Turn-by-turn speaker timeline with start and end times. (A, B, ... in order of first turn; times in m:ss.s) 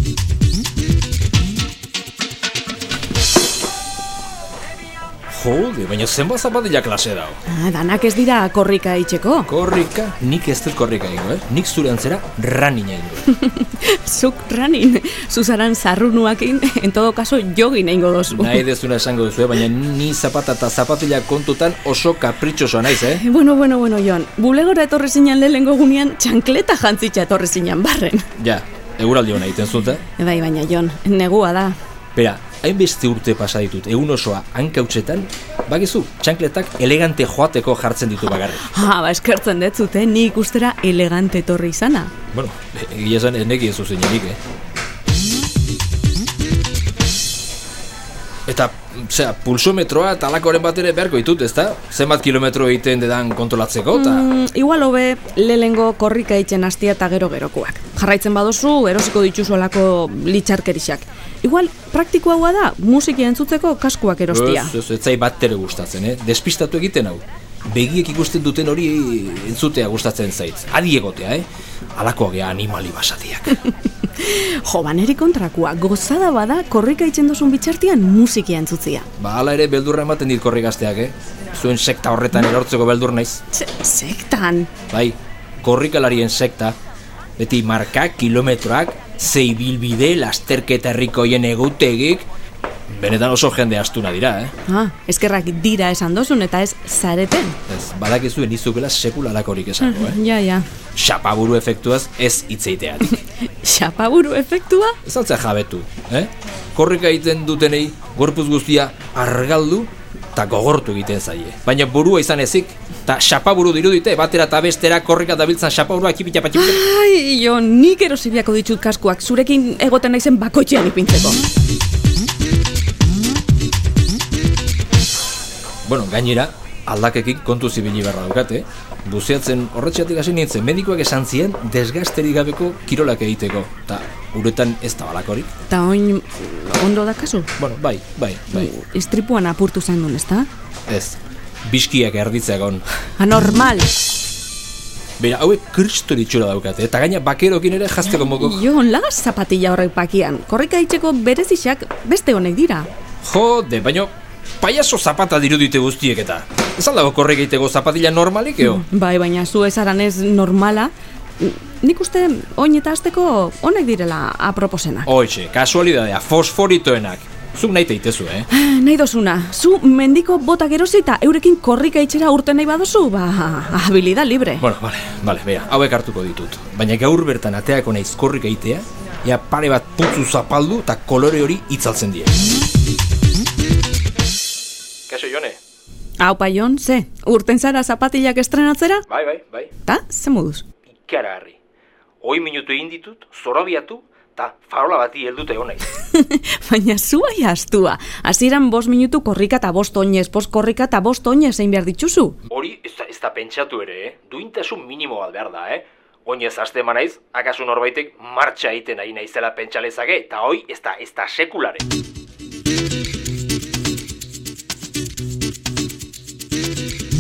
0:05.3-0:07.4 A
0:07.5-0:09.5 B
0:09.5-0:13.3 A
0:13.3-0:18.6 B
0:18.3-0:23.2 A
0:23.0-0:28.3 B
0:28.4-0:30.0 A
0:30.2-0:31.8 B
0:32.2-0:38.7 A
0:38.3-0:42.1 B
0:42.3-0:44.4 A
0:48.5-0:54.3 A
0:53.9-1:04.7 B
1:04.3-1:13.6 A
1:14.0-1:19.1 B
1:19.2-1:23.4 A
1:23.5-1:24.7 B
1:24.9-1:26.8 A
1:27.4-1:32.3 A
1:32.9-1:34.5 A
1:34.7-1:37.6 B
1:37.7-1:40.2 A
1:39.8-1:40.7 B
1:41.0-1:43.1 A
1:43.1-1:45.0 B
1:45.0-1:56.8 A
1:56.5-2:01.4 B
2:05.8-2:15.5 A
2:15.7-2:17.5 B
2:17.6-2:18.7 A
2:18.5-2:20.5 B
2:20.9-2:22.8 A
2:23.2-2:23.9 B
2:25.2-2:28.7 A
2:28.1-2:32.9 B
2:33.2-2:38.8 A
2:38.6-2:45.1 B
2:45.1-2:48.5 A
2:48.5-2:54.6 B
2:54.6-3:02.4 A
3:05.1-3:05.6 A
3:06.2-3:09.1 B
3:09.1-3:09.7 A
3:09.8-3:10.6 B
3:10.9-3:11.6 A
3:12.2-3:15.9 A
3:16.0-3:22.4 B
3:22.5-3:31.9 A